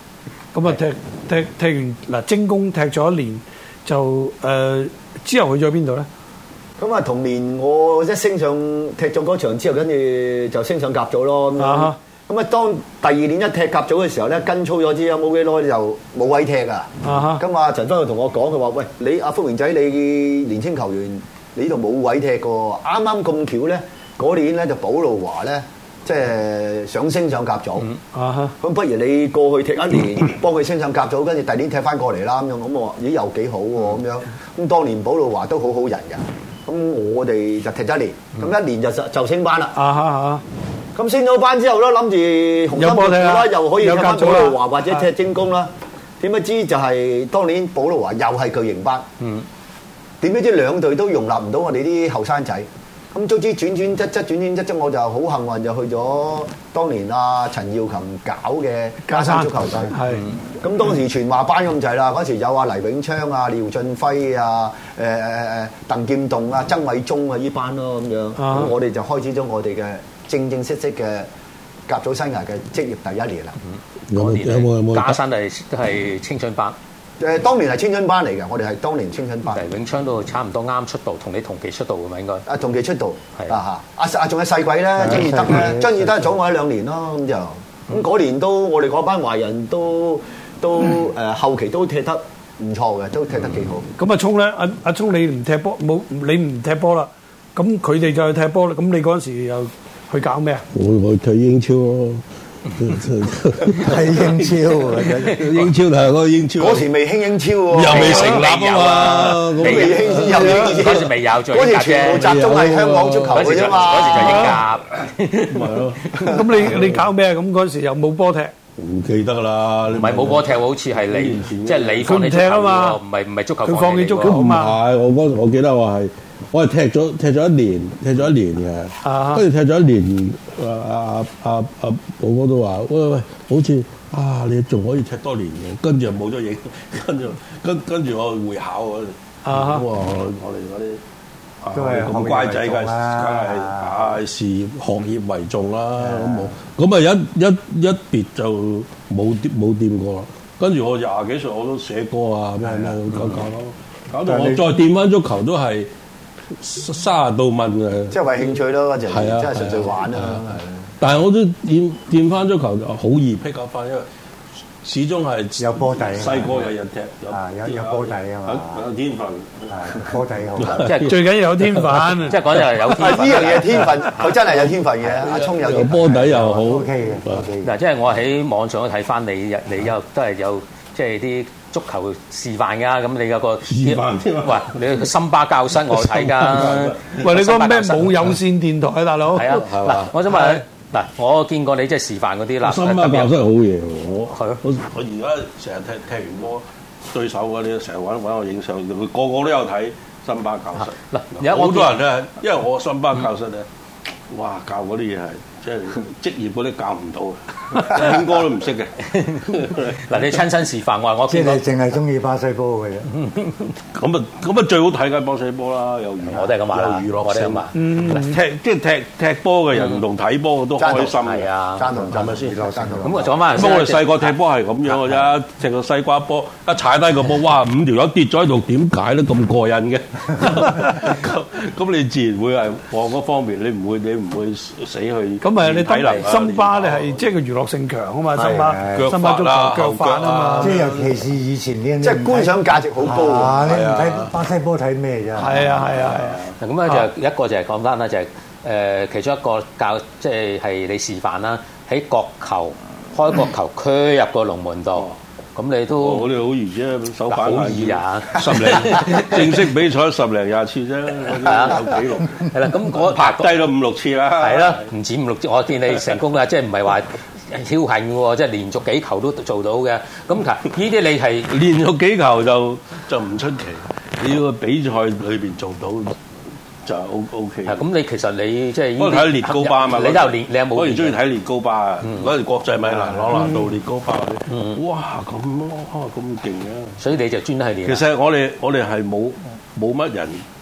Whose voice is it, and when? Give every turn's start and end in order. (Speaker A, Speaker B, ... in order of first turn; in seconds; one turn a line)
Speaker A: 0.5-6.1
Speaker B: 6.8-27.9
Speaker A: 11.6-11.9
Speaker A: 17.0-17.4
Speaker A: 28.1-28.5
Speaker B: 28.6-39.7
Speaker A: 39.7-40.4
Speaker B: 40.9-49.0
Speaker A: 42.7-44.6
Speaker C: 49.2-49.5
Speaker B: 50.2-60.0
Speaker A: 59.1-60.2
Speaker B: 60.6-71.3
Speaker A: 68.4-68.7
Speaker B: 71.9-73.5
Speaker D: 74.1-75.2
Speaker C: 74.1-76.8
Speaker B: 77.2-79.6
Speaker C: 79.5-82.4
Speaker B: 82.5-93.8
Speaker E: 85.0-86.3
Speaker A: 94.0-100.6
Speaker D: 100.7-106.9
Speaker E: 103.8-105.4
Speaker C: 105.1-105.7
Speaker B: 106.6-108.2
Speaker D: 107.7-110.5
Speaker C: 107.9-112.3
Speaker A: 108.0-108.5
Speaker B: 109.6-114.4
Speaker A: 110.3-110.8
Speaker D: 112.0-114.2
Speaker C: 113.3-115.6
Speaker A: 114.2-114.6
Speaker D: 115.5-117.1
Speaker A: 116.3-118.5
Speaker D: 118.8-122.2
Speaker C: 119.9-124.4
Speaker A: 122.0-123.0
Speaker A: 123.6-124.8
Speaker D: 124.2-141.0
Speaker A: 129.0-129.4
Speaker A: 139.4-139.8
Speaker D: 141.6-155.9
Speaker E: 141.7-144.2
Speaker E: 146.0-146.5
Speaker E: 152.7-152.9
Speaker E: 154.3-154.6
Speaker D: 156.6-158.2
Speaker B: 158.1-160.9
Speaker D: 159.1-160.4
Speaker D: 161.0-164.1
Speaker D: 164.8-172.6
Speaker E: 165.6-166.7
Speaker E: 167.3-168.8
Speaker E: 169.7-171.0
Speaker C: 170.8-171.2
Speaker A: 171.1-172.4
Speaker C: 172.2-175.5
Speaker B: 172.9-176.4
Speaker D: 175.5-177.5
Speaker E: 176.1-177.7
Speaker C: 177.6-188.3
Speaker D: 183.6-185.1
Speaker D: 185.9-187.2
Speaker A: 187.2-189.6
Speaker C: 189.3-193.3
Speaker D: 189.6-190.1
Speaker D: 192.6-203.7
Speaker C: 194.3-194.6
Speaker C: 200.8-202.0
Speaker D: 204.3-210.0
Speaker C: 209.1-211.7
Speaker E: 211.3-213.1
Speaker C: 213.2-213.7
Speaker D: 213.9-221.5
Speaker C: 216.3-217.9
Speaker A: 217.7-218.4
Speaker B: 220.8-221.2
Speaker C: 221.2-221.9
Speaker B: 221.8-223.3
Speaker E: 221.9-223.3
Speaker D: 222.1-222.6
Speaker C: 223.0-224.3
Speaker D: 223.5-237.3
Speaker A: 235.4-240.7
Speaker B: 238.3-238.7
Speaker E: 238.6-239.1
Speaker D: 238.8-241.2
Speaker E: 240.6-245.7
Speaker B: 242.0-243.7
Speaker D: 243.6-244.3
Speaker A: 245.3-247.1
Speaker D: 245.6-246.6
Speaker C: 246.6-256.3
Speaker D: 256.0-264.9
Speaker C: 257.3-259.6
Speaker C: 261.3-263.5
Speaker C: 264.4-271.5
Speaker D: 271.5-276.1
Speaker D: 276.8-277.8
Speaker C: 277.7-281.2
Speaker D: 279.0-287.0
Speaker C: 284.5-284.8
Speaker C: 287.0-288.0
Speaker D: 287.8-290.4